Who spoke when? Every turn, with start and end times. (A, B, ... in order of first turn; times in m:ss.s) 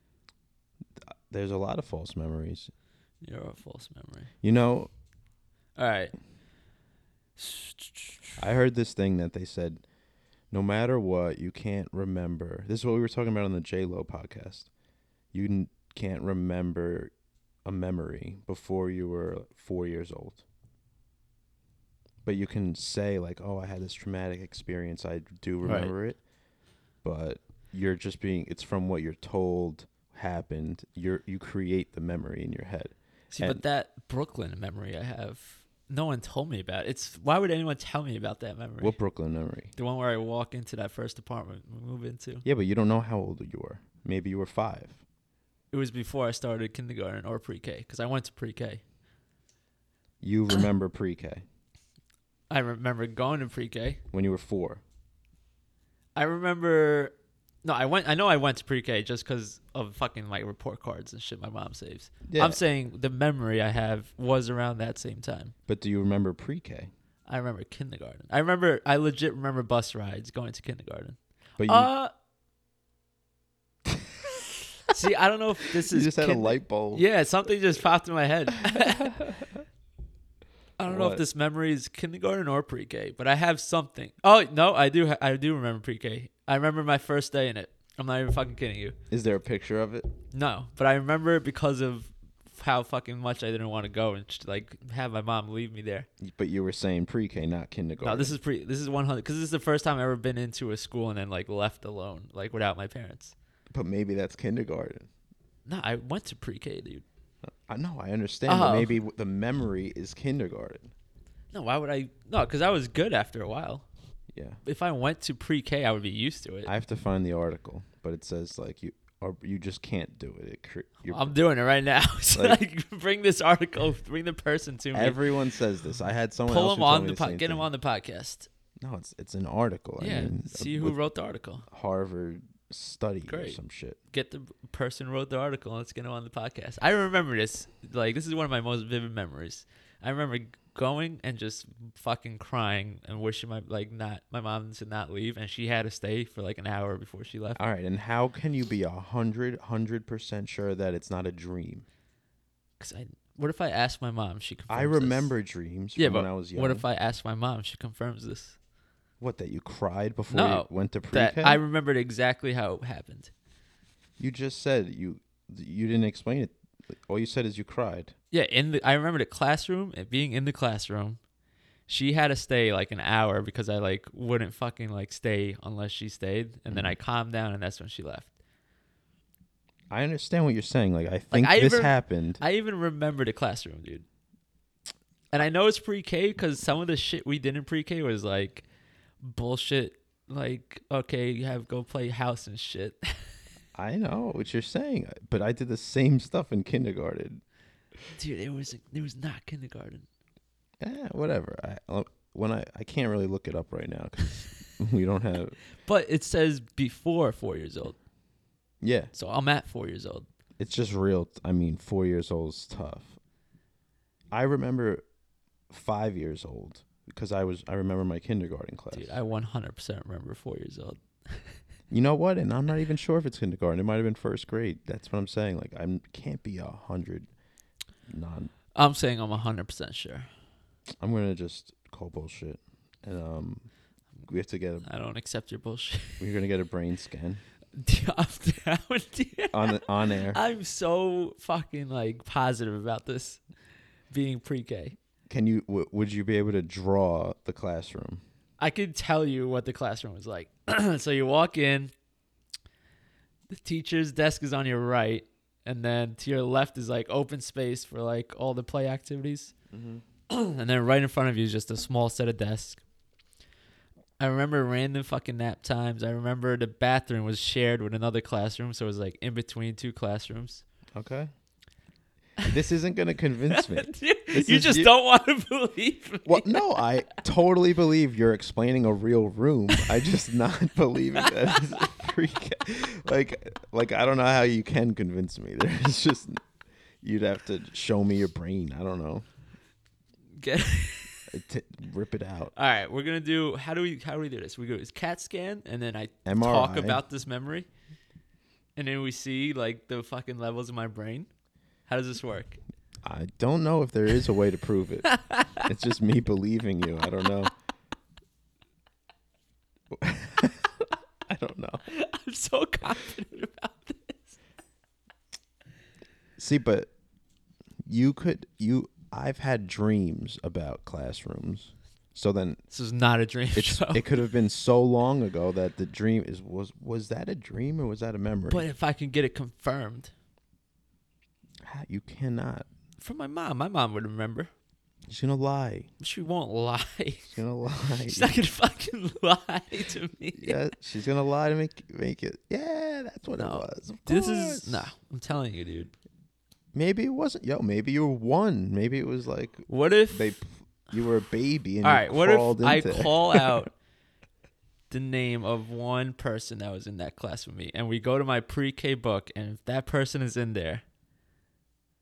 0:01.1-0:02.7 A
0:03.2-0:04.3 B
0:04.4-0:04.9 A
0:05.8-0:06.1 B
0:07.4-0:08.4 B
0:08.4-0:09.8 A
0:10.5-0:14.7 A
0:15.3-0:17.1 A
0:17.6-0:20.4 A
0:22.2-0:26.2 A
0:25.6-0:25.9 B
0:27.0-0:33.6 A
0:33.3-0:39.0 B
0:38.8-0:39.7 A
0:39.7-0:42.4 B
0:42.4-0:45.0 A
0:45.7-0:48.8 B
0:50.2-0:51.4 A
0:52.5-0:54.0 B
0:54.1-0:54.8 A
0:56.2-1:05.5 B
1:02.3-1:02.6 A
1:05.7-1:06.9 A
1:07.3-1:12.1 B
1:11.6-1:11.9 A
1:14.9-1:19.2 B
1:15.8-1:17.0 A
1:18.6-1:19.4 A
1:20.8-1:29.0 B
1:20.8-1:21.2 A
1:29.1-1:30.1 A
1:30.3-1:36.1 B
1:36.2-1:38.3 A
1:38.0-1:43.3 B
1:43.7-1:45.1 A
1:45.6-1:47.0 B
1:47.4-1:50.9 A
1:48.5-1:49.0 B
1:51.5-1:53.8 B
1:54.3-1:54.6 A
1:54.6-1:56.7 B
1:56.6-2:01.4 A
2:01.0-2:05.2 B
2:02.3-2:02.6 A
2:04.9-2:07.6 A
2:06.5-2:08.5 B
2:08.8-2:11.0 A
2:10.0-2:11.7 B
2:11.7-2:14.0 A
2:13.3-2:13.6 B
2:14.1-2:27.6 B
2:27.6-2:31.8 A
2:32.8-2:35.3 B
2:34.7-2:36.8 A
2:36.0-2:38.6 B
2:39.2-2:41.6 A
2:40.3-2:43.3 B
2:44.2-2:48.1 A
2:48.3-2:51.2 B
2:51.9-2:58.3 B
2:56.7-2:57.0 A
2:59.9-3:02.4 A
3:01.3-3:04.0 B
3:05.3-3:08.6 B
3:09.2-3:13.2 B
3:13.7-3:17.4 A
3:18.2-3:20.0 B
3:20.8-3:25.6 A
3:25.8-3:28.0 B
3:28.8-3:29.1 A
3:29.1-3:30.2 B
3:30.6-3:33.2 A
3:34.3-3:35.0 A
3:35.7-3:39.2 A
3:38.9-3:41.6 B
3:41.9-3:47.3 A
3:48.1-3:48.5 A
3:48.7-3:50.3 B
3:51.0-3:53.7 A
3:54.3-3:54.8 A
3:54.8-3:56.2 B
3:56.2-3:57.4 A
3:57.8-4:03.4 B
3:59.5-4:00.4 A
4:04.1-4:05.0 B
4:05.3-4:08.2 A
4:08.6-4:11.9 B
4:13.5-4:19.5 B
4:19.7-4:20.0 A
4:20.3-4:22.8 B
4:24.2-4:30.6 B
4:30.9-4:31.3 A
4:32.5-4:34.9 A
4:33.5-4:36.7 B
4:36.2-4:46.4 A
4:47.0-4:49.2 A
4:50.4-4:51.3 B
4:51.3-4:52.5 A
4:52.5-4:57.7 B
4:56.2-4:57.0 A
4:58.8-5:01.3 B
5:01.9-5:02.6 B
5:03.0-5:07.5 A
5:05.1-5:05.6 B
5:09.9-5:11.8 A
5:11.9-5:14.4 B
5:16.4-5:16.9 A
5:17.8-5:22.6 A
5:22.7-5:24.0 B
5:23.5-5:28.6 A
5:28.5-5:30.1 B
5:31.6-5:32.7 A
5:33.0-5:34.5 B
5:35.1-5:35.9 A
5:36.0-5:37.3 B
5:37.3-5:38.3 A
5:38.0-5:40.6 B
5:40.3-5:44.9 A
5:43.4-5:45.9 B
5:46.7-5:53.6 A
5:49.7-5:50.3 B
5:51.8-5:53.7 B
5:54.9-6:00.8 B